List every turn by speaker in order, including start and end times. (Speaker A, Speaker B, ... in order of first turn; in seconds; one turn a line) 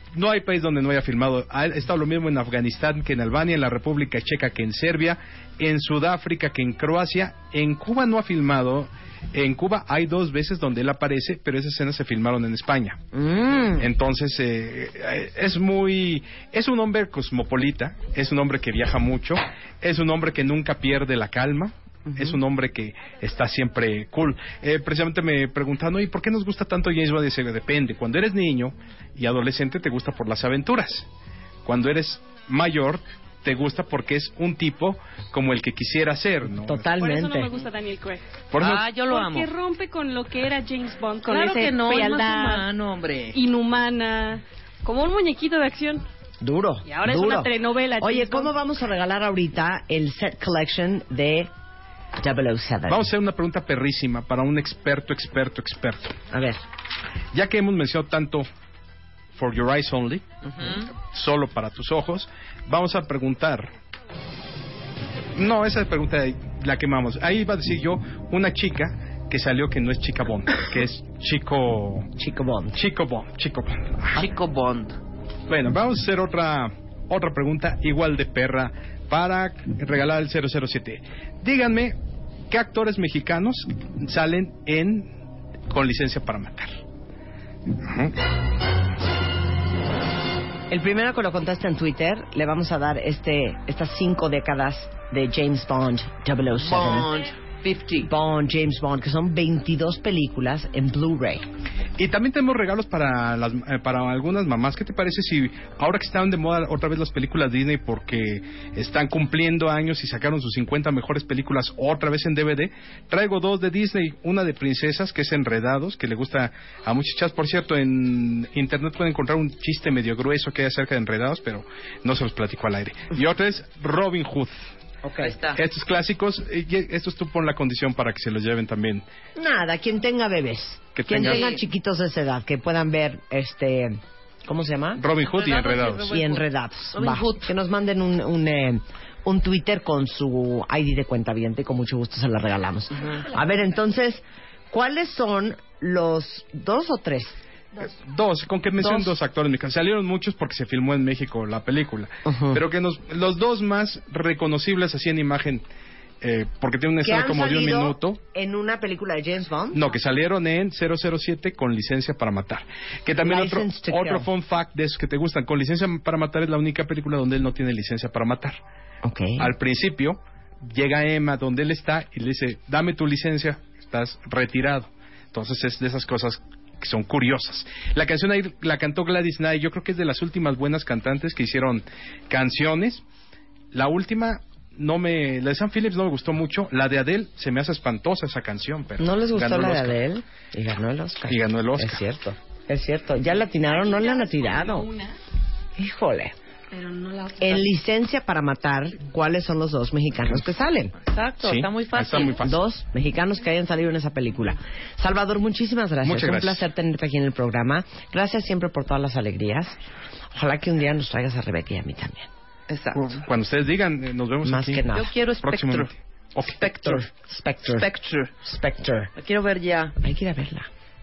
Speaker A: 0.1-13.0
Speaker B: 13.1-13.9
Speaker A: 13.7-31.1
Speaker B: 22.1-22.4
Speaker A: 31.6-36.9
Speaker B: 36.5-37.5
Speaker C: 37.0-38.2
Speaker A: 38.5-38.8
Speaker D: 38.6-39.5
Speaker C: 38.9-42.7
Speaker D: 41.3-43.4
Speaker C: 43.3-46.0
Speaker B: 46.4-51.5
Speaker C: 46.9-48.5
Speaker B: 52.2-53.1
Speaker A: 52.9-56.2
Speaker B: 56.3-56.6
Speaker A: 57.3-58.5
Speaker A: 59.4-60.2
Speaker D: 60.5-60.9
Speaker A: 60.9-63.7
Speaker A: 65.3-72.1
Speaker B: 72.2-72.8
Speaker A: 72.7-74.3
Speaker D: 74.1-75.0
Speaker A: 75.5-82.0
Speaker A: 82.5-85.1
Speaker A: 85.7-86.7
Speaker A: 87.8-88.1
Speaker B: 90.7-97.1
Speaker D: 96.6-98.1
Speaker B: 98.0-101.5
Speaker A: 102.0-124.7
Speaker B: 125.0-125.3
Speaker D: 125.2-125.6
Speaker A: 125.6-129.0
Speaker B: 129.4-135.0
Speaker A: 131.0-131.4
Speaker D: 131.1-131.6
Speaker A: 135.0-136.2
Speaker D: 135.2-137.5
Speaker B: 136.0-147.4
Speaker A: 147.8-155.6
Speaker B: 148.8-149.1
Speaker B: 152.2-152.6
Speaker A: 156.2-158.2
Speaker B: 157.0-159.9
Speaker A: 159.7-168.6
Speaker B: 163.2-164.3
Speaker B: 169.0-169.5
Speaker A: 169.4-183.0
Speaker A: 183.7-190.0
Speaker B: 189.0-194.9
Speaker A: 191.3-192.0
Speaker B: 195.8-196.3
Speaker B: 197.4-200.9
Speaker D: 201.1-202.4
Speaker A: 201.4-202.6
Speaker B: 202.4-209.8
Speaker A: 206.0-206.7
Speaker B: 210.3-212.3
Speaker D: 212.7-213.2
Speaker A: 212.9-216.5
Speaker B: 214.4-215.1
Speaker D: 214.9-217.1
Speaker B: 216.7-217.9
Speaker D: 217.7-218.3
Speaker B: 218.4-219.1
Speaker D: 219.2-220.0
Speaker B: 220.0-220.7